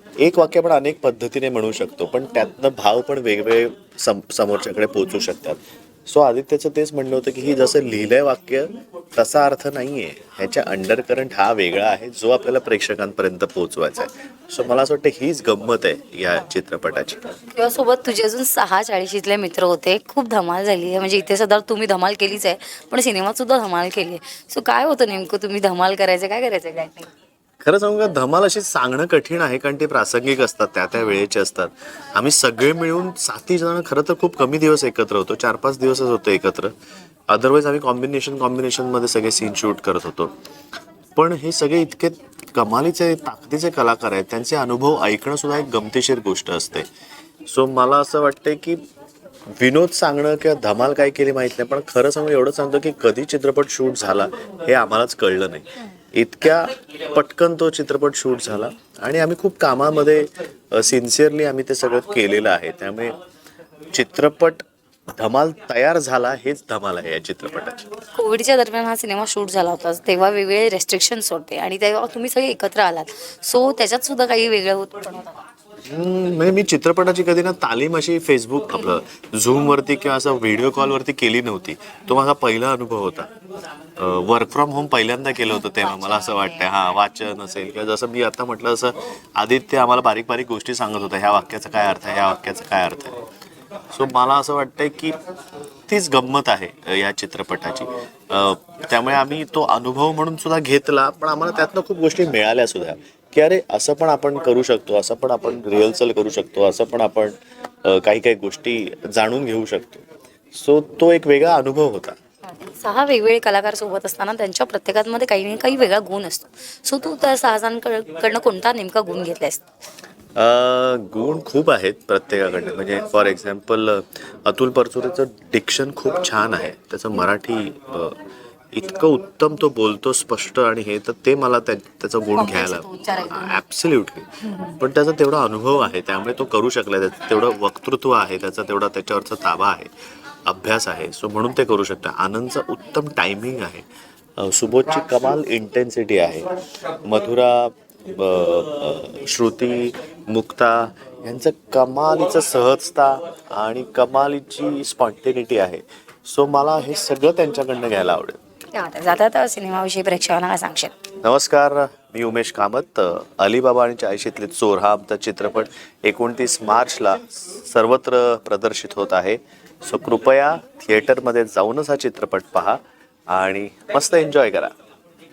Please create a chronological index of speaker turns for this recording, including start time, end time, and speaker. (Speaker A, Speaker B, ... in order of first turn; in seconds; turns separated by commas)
Speaker A: 0.2-17.2, Speaker B: 17.5-27.1, Speaker A: 27.6-36.7, Speaker A: 37.3-40.3, Speaker A: 41.1-46.9, Speaker A: 47.5-48.8, Speaker A: 49.6-63.1, Speaker A: 63.9-67.9, Speaker B: 68.1-75.5, Speaker A: 75.9-83.3, Speaker A: 84.0-93.2, Speaker A: 93.9-95.2, Speaker A: 95.9-110.0, Speaker A: 110.5-112.2, Speaker B: 112.5-119.6, Speaker A: 120.3-128.2, Speaker A: 128.7-134.3, Speaker B: 132.3-133.6, Speaker B: 134.5-134.8, Speaker A: 134.8-139.9, Speaker A: 140.4-143.8, Speaker A: 144.4-146.5, Speaker A: 147.1-158.4, Speaker B: 158.7-160.9, Speaker A: 161.2-172.8, Speaker A: 173.3-174.7